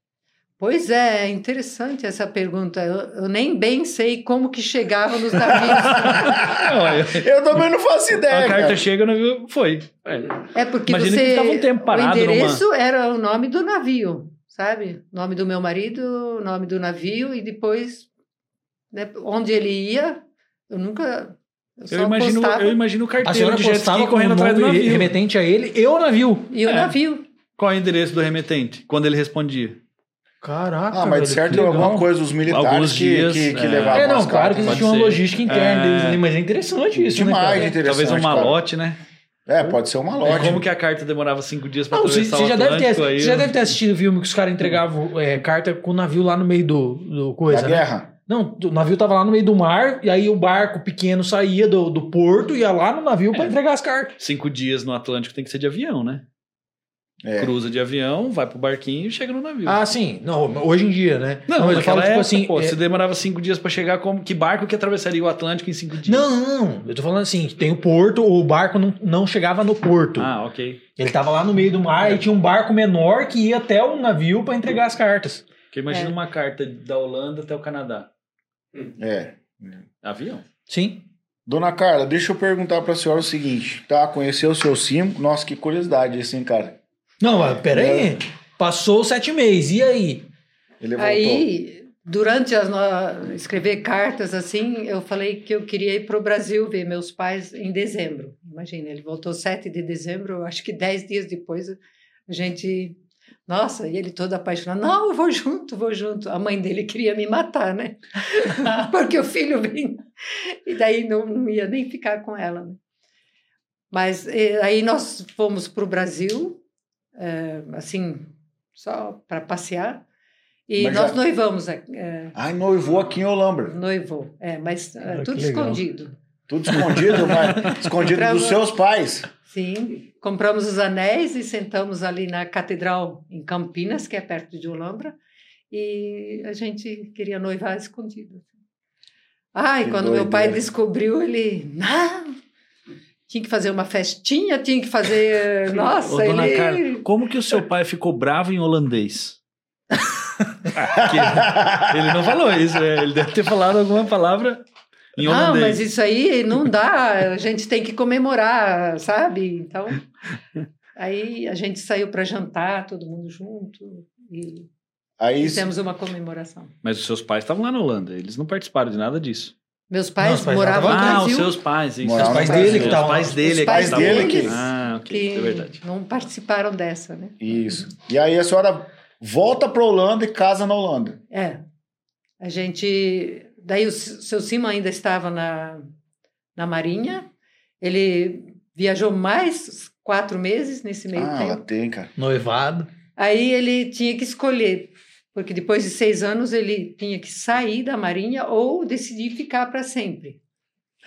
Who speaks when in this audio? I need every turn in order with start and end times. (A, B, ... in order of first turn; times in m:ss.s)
0:00.6-0:06.4 A
0:05.7-0:07.3 B
0:06.1-0:08.8 C
0:08.3-0:12.6 B
0:10.5-0:18.1 A
0:18.9-0:22.8 A
0:21.9-0:25.1 B
0:23.2-0:26.5 D
0:26.5-0:27.2 A
0:26.7-0:26.9 B
0:27.6-0:29.8 B
0:30.4-0:32.1 D
0:30.9-0:34.8 C
0:32.5-0:36.2 B
0:33.9-0:37.7 D
0:37.1-0:38.6 C
0:37.8-0:39.0 B
0:39.4-0:40.7 C
0:40.2-0:43.6 B
0:41.9-0:54.2 D
0:47.5-0:48.1 C
0:54.2-0:56.2 B
0:57.2-0:57.5 C
0:57.4-0:59.8 B
0:59.6-1:02.8 D
1:01.5-1:06.4 B
1:06.0-1:10.3 D
1:10.2-1:10.8 B
1:11.0-1:15.4 D
1:15.7-1:18.1 B
1:15.9-1:16.1 A
1:19.0-1:19.8 C
1:20.0-1:20.4 B
1:20.7-1:21.0 D
1:21.5-1:26.8 C
1:27.2-1:30.3 D
1:27.6-1:28.2 C
1:30.8-1:31.5 C
1:31.0-1:52.8 A
1:53.9-1:56.6 A
1:57.2-2:00.0 A
2:00.7-2:02.4 A
2:00.8-2:01.2 C
2:02.4-2:03.8 C
2:03.7-2:06.2 A
2:05.1-2:05.8 D
2:06.5-2:09.3 C
2:06.7-2:07.7 D
2:07.9-2:08.6 A
2:09.4-2:15.2 A
2:15.7-2:18.5 A
2:19.5-2:22.4 A
2:19.8-2:20.6 C
2:23.3-2:27.0 A
2:25.8-2:29.4 B
2:30.7-2:34.6 B
2:31.0-2:32.2 C
2:35.2-2:35.8 B
2:35.2-2:40.1 A
2:41.0-2:44.7 A
2:45.2-2:45.7 C
2:45.4-2:46.7 A
2:46.8-2:49.5 B
2:49.9-2:51.6 A
2:50.2-2:51.3 D
2:50.8-2:55.8 B
2:52.0-2:54.6 C
2:52.1-2:53.6 D
2:52.4-2:57.4 A
2:57.4-3:01.2 C
3:01.3-3:01.6 A
3:02.4-3:05.8 A
3:06.6-3:07.3 A
3:07.8-3:11.6 A
3:11.1-3:12.1 C
3:12.2-3:12.9 D
3:13.2-3:20.4 A